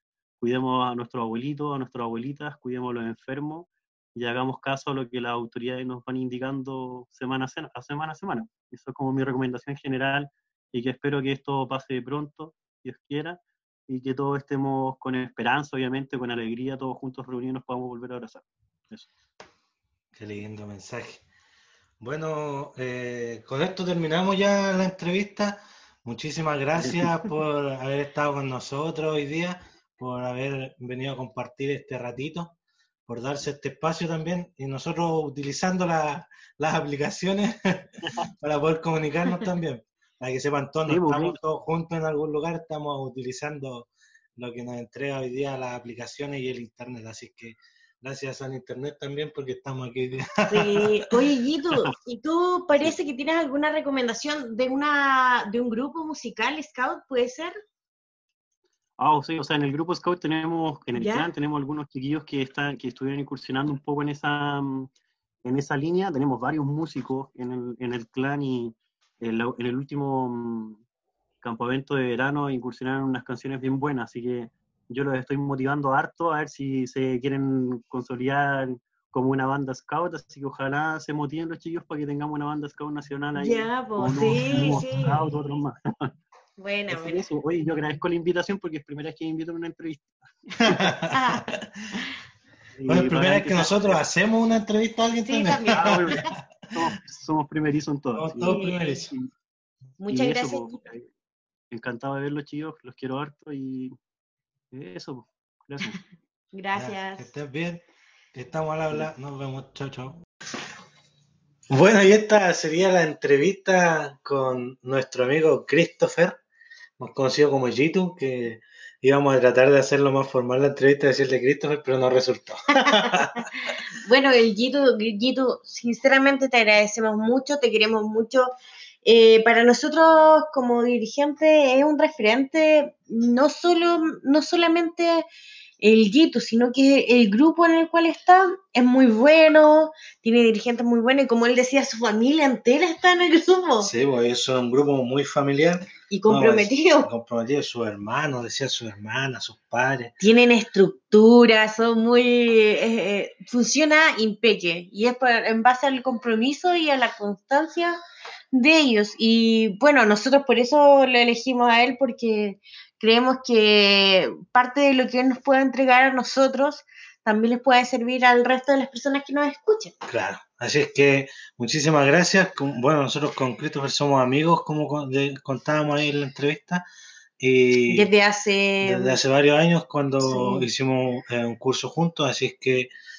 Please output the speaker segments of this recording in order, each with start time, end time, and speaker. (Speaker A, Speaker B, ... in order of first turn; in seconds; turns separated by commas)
Speaker A: 0.4-19.1, Speaker B: 20.1-21.2, Speaker B: 22.0-32.5, Speaker A: 26.8-27.1, Speaker B: 33.1-50.9, Speaker A: 40.9-41.4, Speaker C: 50.5-57.5, Speaker A: 59.0-64.9, Speaker C: 60.9-61.3, Speaker A: 65.4-70.8, Speaker A: 71.4-86.1, Speaker C: 83.4-85.2, Speaker C: 86.6-87.2, Speaker A: 86.9-90.9, Speaker B: 90.6-91.9, Speaker C: 91.1-91.5, Speaker A: 92.8-94.0, Speaker B: 92.9-96.2, Speaker C: 95.2-96.3, Speaker A: 95.7-99.3, Speaker B: 98.1-99.1, Speaker C: 98.4-99.0, Speaker C: 100.0-100.8, Speaker A: 100.1-101.0, Speaker A: 101.7-103.9, Speaker A: 104.7-106.0, Speaker C: 106.5-107.3, Speaker B: 106.7-107.8, Speaker B: 108.3-110.2, Speaker B: 111.7-116.4, Speaker B: 117.0-123.5, Speaker C: 122.8-128.5, Speaker C: 129.0-135.3, Speaker C: 135.8-143.9, Speaker B: 143.8-150.1, Speaker C: 146.1-147.1, Speaker C: 150.2-158.0, Speaker C: 158.5-169.9, Speaker B: 170.1-176.8, Speaker B: 177.4-178.1, Speaker C: 177.9-179.2, Speaker B: 178.8-182.9, Speaker C: 180.2-180.7